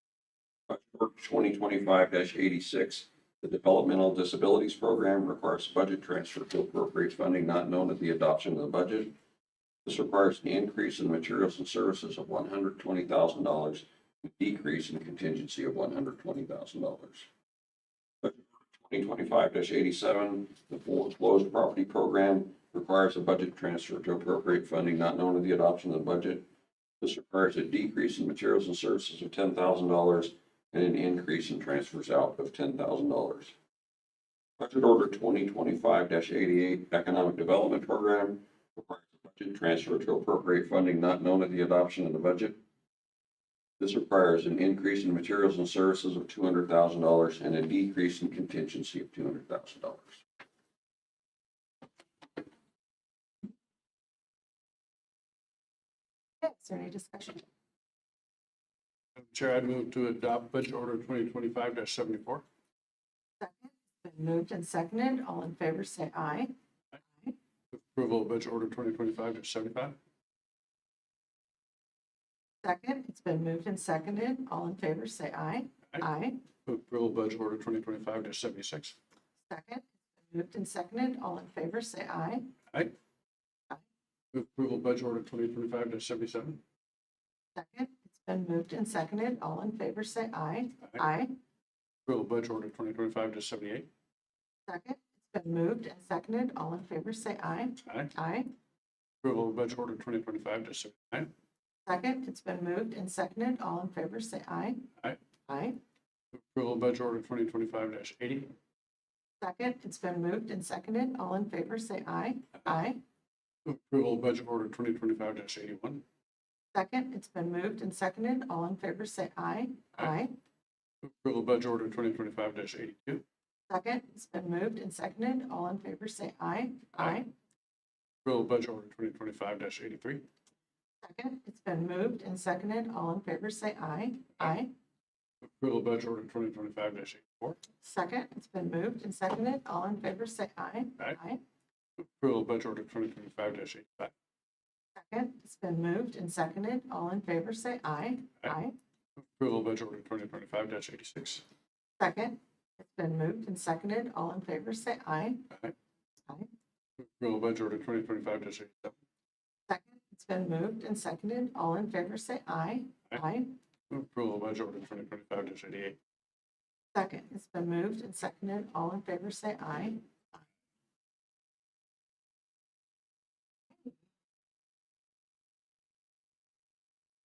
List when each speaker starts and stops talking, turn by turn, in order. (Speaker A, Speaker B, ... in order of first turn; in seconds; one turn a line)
Speaker A: 0.7-9.2
Speaker A: 9.8-17.3
Speaker A: 18.2-26.5
Speaker A: 27.0-33.5
Speaker A: 34.6-42.6
Speaker A: 43.8-50.2
Speaker B: 56.4-57.4
Speaker C: 59.2-62.4
Speaker B: 63.4-66.5
Speaker C: 67.7-70.0
Speaker B: 72.6-76.4
Speaker C: 76.7-79.0
Speaker B: 79.5-82.5
Speaker C: 84.3-86.6
Speaker B: 87.5-91.3
Speaker C: 92.1-93.9
Speaker B: 94.7-98.5
Speaker C: 97.8-98.1
Speaker C: 99.2-101.3
Speaker B: 101.8-104.9
Speaker B: 105.5-105.8
Speaker C: 106.3-108.5
Speaker B: 109.4-113.0
Speaker C: 113.6-116.0
Speaker B: 116.7-120.3
Speaker C: 121.0-123.2
Speaker B: 123.7-127.3
Speaker C: 128.2-130.2
Speaker B: 131.0-134.7
Speaker C: 135.4-137.6
Speaker B: 137.8-141.4
Speaker C: 142.0-144.1
Speaker B: 144.9-148.8
Speaker C: 149.2-151.4
Speaker B: 152.0-155.5
Speaker C: 157.0-158.9
Speaker B: 159.7-163.5
Speaker C: 163.9-166.0
Speaker B: 166.9-170.4